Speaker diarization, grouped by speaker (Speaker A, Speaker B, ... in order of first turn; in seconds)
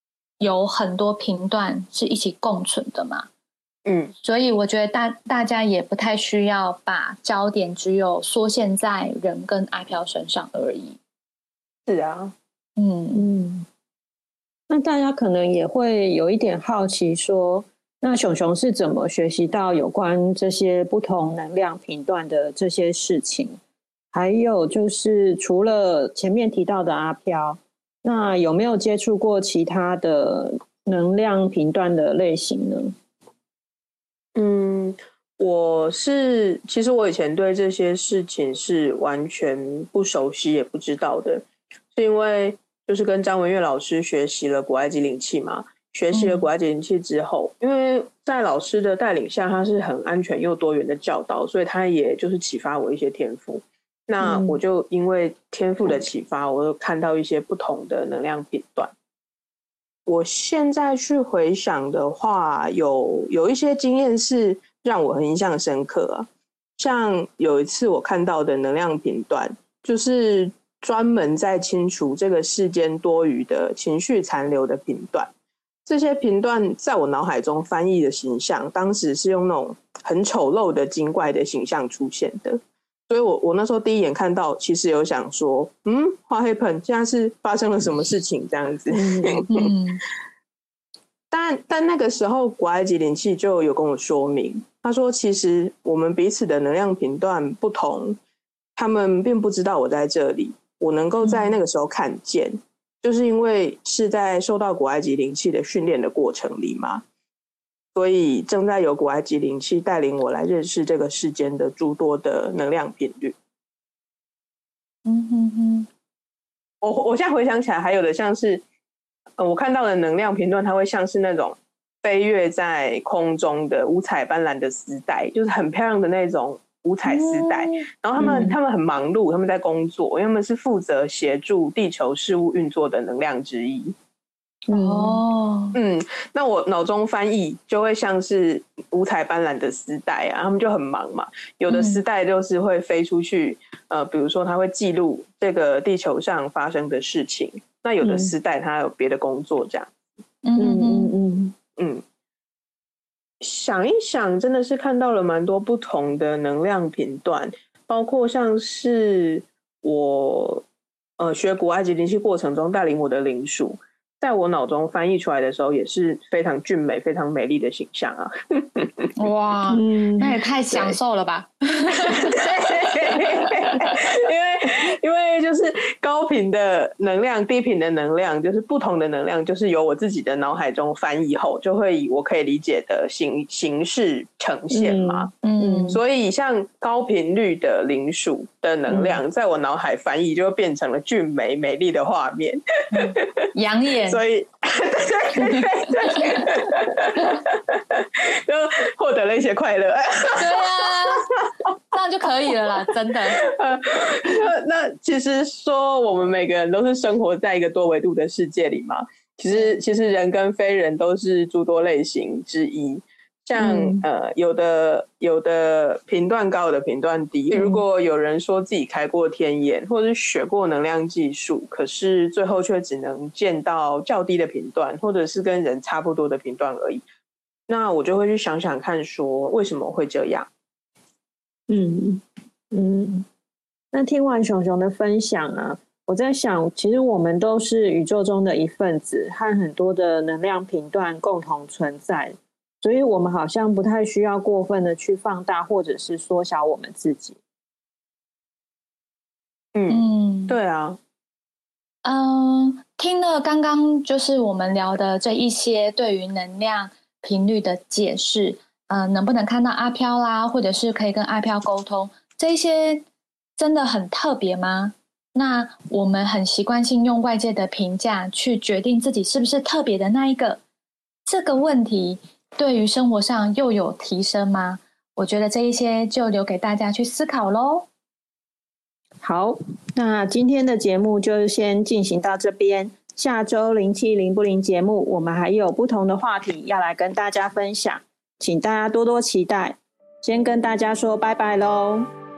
Speaker A: 0.4-3.2, 4.2-11.0, 12.8-13.2, 46.1-46.5, 89.5-90.0, 115.0-115.9, 127.1-127.8, 134.7-135.8, 141.7-142.0, 150.4-151.1, 169.2-172.4, 185.4-186.0, 192.9-194.2, 195.4-196.1, 200.3-201.3, 201.9-203.4, 249.9-250.6, 252.0-263.0, 263.6-270.6, 271.2-277.9
Speaker B: 3.9-4.1, 11.9-12.3, 34.4-58.9, 60.1-75.3, 75.8-89.7, 91.3-98.2, 98.8-107.0, 107.9-113.3, 116.8-118.6, 119.4-133.9, 135.7-149.9, 151.8-152.0, 153.4-160.6, 161.2-169.1, 170.7-171.0, 172.1-185.3, 185.9-193.5, 194.1-200.6, 203.4-227.0, 227.7-230.5, 249.7-251.0
Speaker C: 13.1-13.7, 14.7-23.6, 24.1-32.9, 54.2-54.6, 88.9-89.4, 128.2-128.6, 134.7-135.2, 148.0-148.3, 150.6-151.5, 169.7-170.4, 184.7-186.0, 188.9-189.2, 213.6-214.0, 217.5-217.8, 231.7-233.2, 233.9-247.4, 279.2-292.1